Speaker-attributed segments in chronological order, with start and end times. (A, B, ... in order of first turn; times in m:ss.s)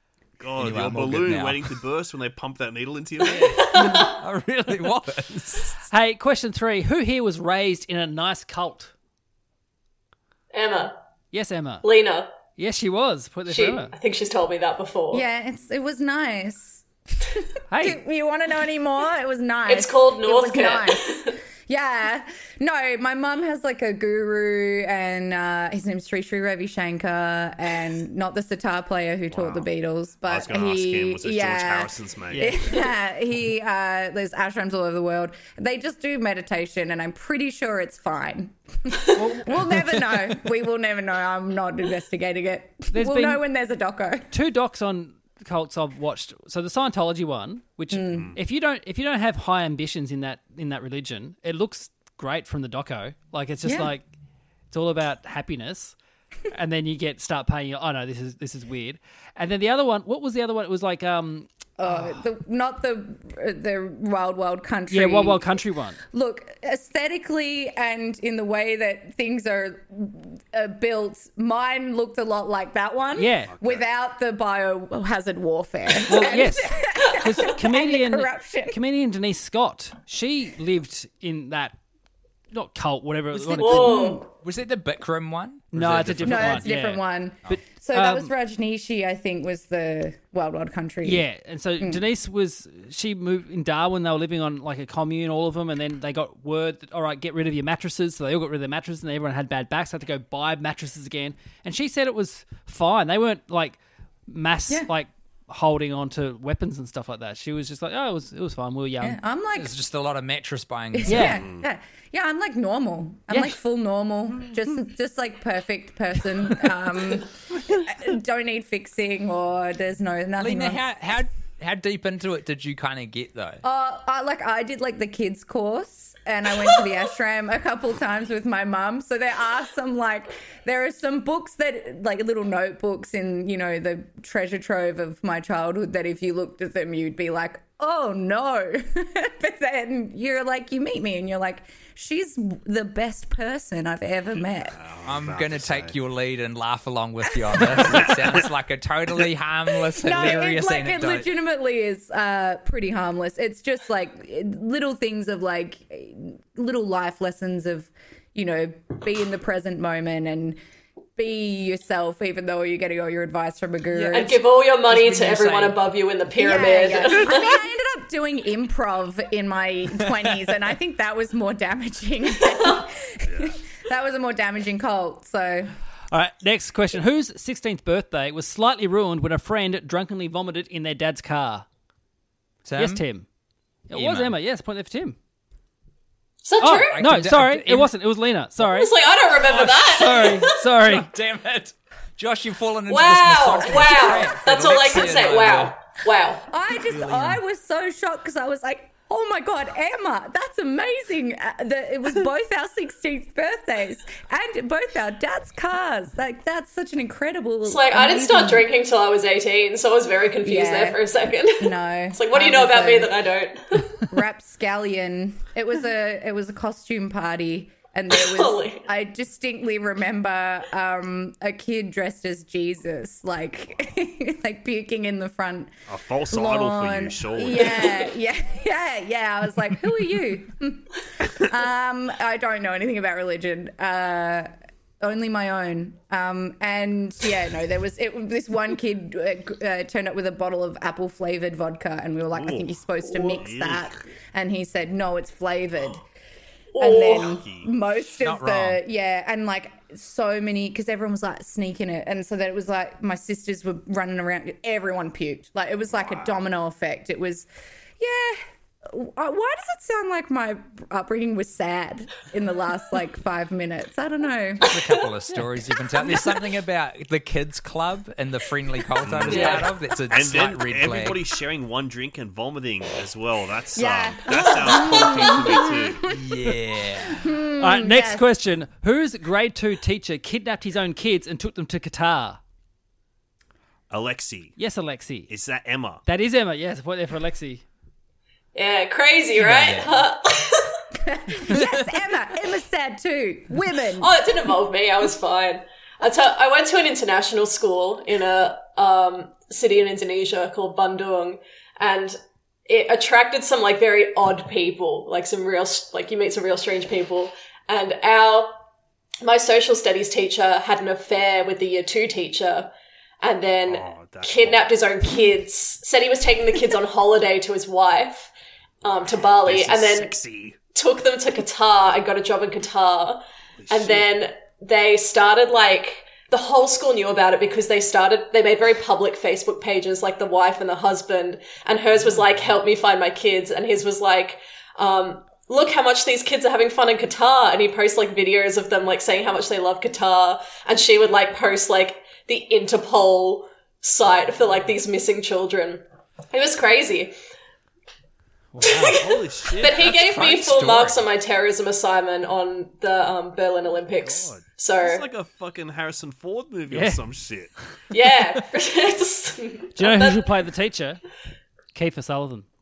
0:00.4-0:03.8 A
0:00.6-0:01.8 B
0:03.3-0:05.9 B
0:03.5-0:04.1 C
0:05.9-0:08.9 D
0:10.5-0:11.0 C
0:11.3-0:11.8 D
0:11.8-0:12.3 C
0:12.6-0:13.9 D
0:13.5-0:15.2 C
0:15.1-0:44.3 E
0:17.7-0:18.0 D
0:19.7-0:21.4 C
0:29.3-0:29.7 A
0:30.3-0:32.6 A
0:32.3-0:32.6 D
0:39.1-0:39.7 D
0:42.9-0:43.4 D
0:44.3-0:54.0 D
0:47.9-0:48.3 E
0:48.1-0:48.4 A
0:53.6-0:53.9 E
0:54.7-0:56.0 D
0:56.5-1:01.5 D
1:01.8-1:05.5 E
1:04.9-1:06.0 D
1:06.1-1:18.8 E
1:13.1-1:13.5 D
1:13.5-1:13.8 A
1:16.0-1:21.8 D
1:22.5-1:24.0 D
1:23.3-1:23.9 B
1:23.6-1:24.2 C
1:23.6-1:24.3 E
1:24.4-1:26.8 B
1:25.7-1:28.3 D
1:26.2-1:31.2 E
1:31.0-1:49.2 D
1:49.0-1:49.8 E
1:49.6-1:51.4 B
1:50.9-2:00.8 E
1:51.0-1:51.4 D
1:51.3-1:51.7 A
1:53.3-1:53.6 D
2:00.4-2:03.6 B
2:03.6-2:24.8 E
2:24.7-2:26.0 A
2:25.0-2:31.3 B
2:27.8-2:28.4 A
2:29.9-2:40.6 E
2:41.2-2:44.4 E
2:44.0-2:47.6 C
2:44.9-2:45.8 B
2:46.4-2:55.7 E
2:53.3-2:53.5 A
2:56.1-3:01.7 D
3:02.6-3:03.0 B
3:02.8-3:03.3 D
3:03.9-3:05.2 D
3:03.9-3:04.4 B
3:06.4-3:07.0 C
3:06.6-3:08.9 D
3:06.9-3:07.9 B
3:08.6-3:10.5 C
3:09.5-3:15.8 B
3:09.6-3:11.1 D
3:12.9-3:16.5 C
3:16.5-3:28.6 E
3:16.8-3:17.4 B
3:27.6-3:34.1 C
3:30.4-3:31.0 E
3:31.6-3:33.1 E
3:34.1-3:45.7 E
3:38.1-3:38.9 C
3:45.9-3:48.0 A
3:46.3-3:54.5 E
3:55.0-4:06.0 E
4:02.3-4:03.9 A
4:06.7-4:07.4 C
4:06.8-4:17.5 E
4:07.2-4:07.7 A
4:08.2-4:08.8 B
4:15.9-4:16.4 A
4:18.0-4:24.7 E
4:24.6-4:31.2 B
4:29.0-4:36.1 A
4:33.8-4:36.0 E
4:36.1-4:37.3 B
4:37.1-4:38.3 E
4:37.6-4:42.4 D
4:43.9-4:44.6 A
4:44.6-4:45.3 D
4:45.3-4:46.0 A
4:46.0-4:47.6 D
4:48.6-4:50.8 C
4:49.4-4:50.0 B
4:51.0-4:54.1 E
4:51.5-4:51.9 B
4:54.0-5:02.2 C
5:02.7-5:08.6 C
5:09.2-5:18.3 C
5:13.7-5:14.7 A
5:18.8-5:20.1 C
5:18.8-5:20.6 A
5:20.7-5:47.1 C
5:23.6-5:24.1 A
5:48.5-5:49.1 D
5:48.7-5:49.0 C
5:48.9-5:49.9 A
5:49.6-5:55.1 C
5:49.7-5:51.0 B
5:53.9-5:57.5 A
5:56.7-5:57.0 D
5:57.9-6:00.3 C
5:59.8-6:01.0 D
6:01.7-6:02.5 D